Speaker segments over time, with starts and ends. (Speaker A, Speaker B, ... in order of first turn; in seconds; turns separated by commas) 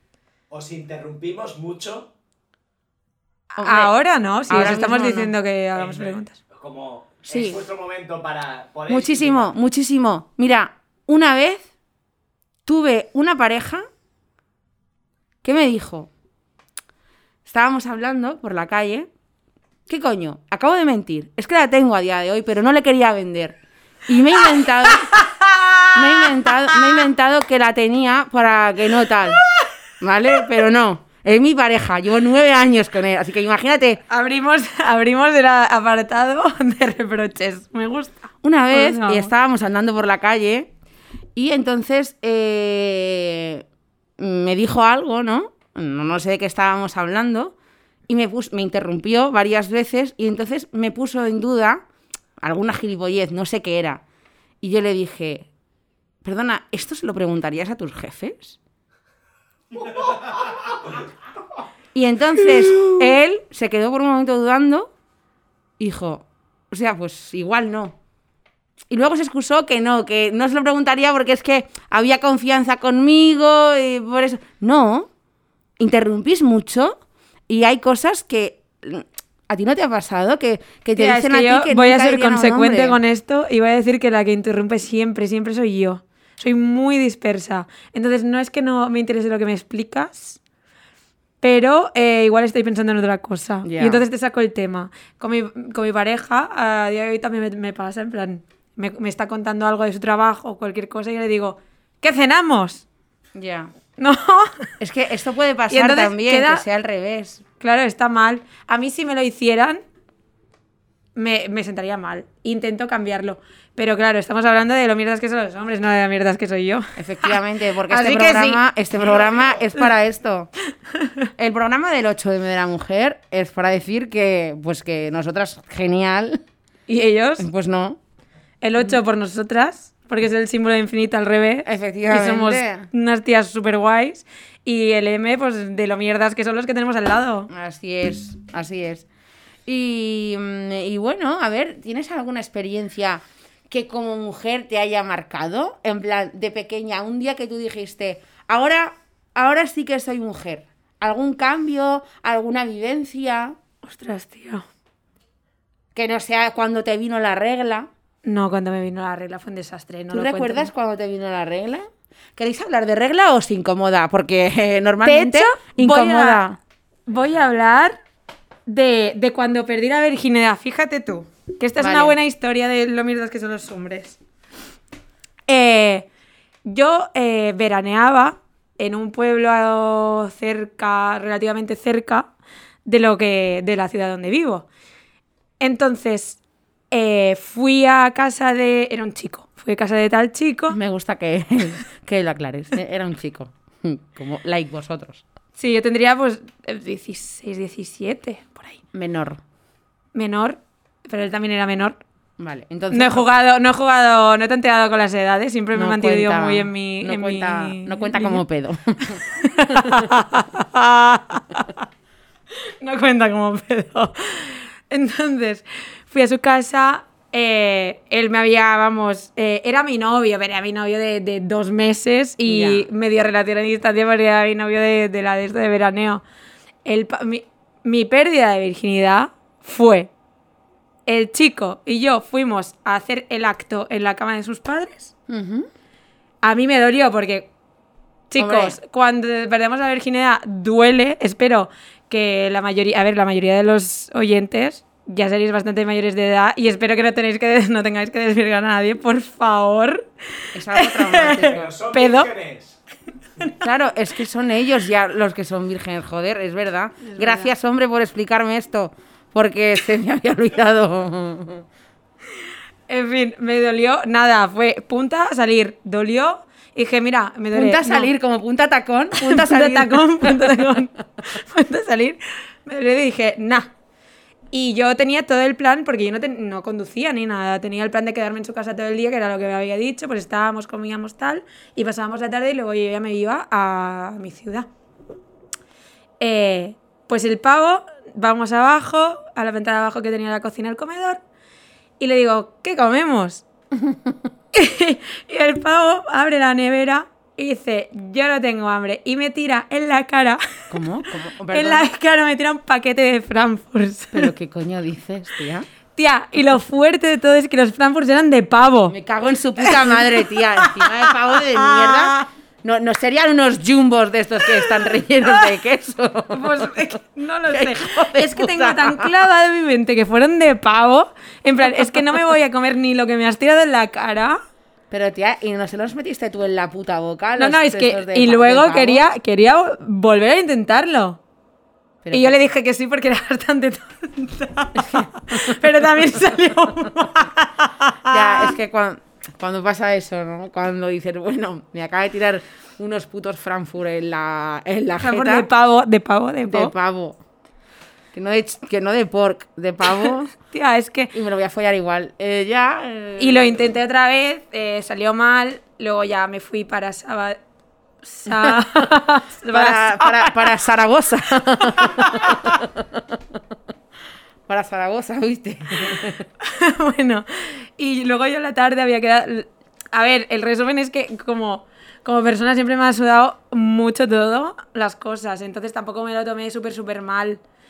Speaker A: 0.5-2.1, Speaker B: 3.5-6.4, Speaker C: 3.6-3.9, Speaker C: 4.5-5.3, Speaker A: 5.8-9.5, Speaker C: 7.3-7.6, Speaker C: 8.9-11.7, Speaker C: 12.7-13.8, Speaker C: 15.4-16.1, Speaker C: 17.4-19.1, Speaker C: 19.9-25.1, Speaker B: 25.0-26.3, Speaker C: 25.9-29.4, Speaker C: 30.0-34.0, Speaker B: 34.1-39.3, Speaker C: 38.4-40.7, Speaker C: 41.4-43.6, Speaker C: 44.2-47.5, Speaker C: 48.1-51.8, Speaker C: 52.4-54.0, Speaker C: 54.6-55.5, Speaker C: 56.2-58.6, Speaker C: 61.9-64.9, Speaker C: 65.8-68.0, Speaker C: 68.9-75.1, Speaker C: 75.8-83.0, Speaker B: 81.0-90.4, Speaker B: 91.4-102.8, Speaker C: 93.6-94.0, Speaker C: 103.3-103.7, Speaker B: 104.0-104.7, Speaker C: 104.8-107.4, Speaker B: 105.7-106.6, Speaker B: 107.6-109.8, Speaker B: 111.2-117.4, Speaker C: 117.0-120.5, Speaker B: 117.9-118.6, Speaker C: 121.4-126.4, Speaker B: 126.9-127.5, Speaker C: 127.4-128.0, Speaker B: 128.6-137.5, Speaker C: 131.7-132.9, Speaker C: 137.5-139.1, Speaker C: 139.7-153.6, Speaker B: 153.8-154.7, Speaker C: 155.9-157.9, Speaker B: 158.2-160.7, Speaker C: 160.1-166.6, Speaker B: 165.0-166.4, Speaker B: 167.1-168.0, Speaker B: 168.7-174.2, Speaker C: 171.8-172.2, Speaker B: 175.5-176.1, Speaker B: 176.7-182.3, Speaker B: 182.8-184.7, Speaker B: 185.6-186.4, Speaker B: 186.9-190.8, Speaker C: 190.7-195.2, Speaker B: 195.6-198.8, Speaker C: 198.9-199.4, Speaker B: 200.2-202.0, Speaker C: 202.4-203.3, Speaker B: 202.9-208.4, Speaker C: 205.7-210.0, Speaker B: 209.3-211.8, Speaker B: 212.8-226.2, Speaker C: 222.5-222.9, Speaker B: 226.8-230.1, Speaker B: 231.1-235.1, Speaker C: 235.3-235.7, Speaker B: 236.4-237.5, Speaker B: 238.3-250.1, Speaker C: 238.4-238.8, Speaker C: 250.5-251.7, Speaker B: 250.7-252.3, Speaker A: 251.4-252.8, Speaker C: 253.6-261.6, Speaker B: 257.0-257.5, Speaker B: 262.9-268.1, Speaker C: 267.5-270.7, Speaker B: 269.2-273.7, Speaker B: 274.5-284.7, Speaker B: 286.2-291.2, Speaker B: 292.0-293.4, Speaker C: 293.8-294.1, Speaker B: 294.5-300.4, Speaker C: 300.7-301.9, Speaker B: 301.5-304.3, Speaker C: 304.1-305.7, Speaker B: 305.9-308.9, Speaker C: 308.9-316.8, Speaker B: 309.6-312.2, Speaker B: 316.3-324.4, Speaker C: 317.5-319.1, Speaker C: 324.9-329.1, Speaker B: 327.4-331.2, Speaker C: 332.0-332.4, Speaker B: 332.1-338.5, Speaker C: 334.8-335.6, Speaker C: 338.1-345.5, Speaker B: 345.0-346.7, Speaker C: 346.5-347.2, Speaker C: 348.1-350.3, Speaker B: 350.4-351.1, Speaker C: 351.1-353.6, Speaker B: 353.2-357.4, Speaker B: 358.0-360.5, Speaker C: 358.3-358.6, Speaker C: 359.5-363.2, Speaker B: 361.7-362.5, Speaker C: 364.5-366.3, Speaker B: 366.4-377.4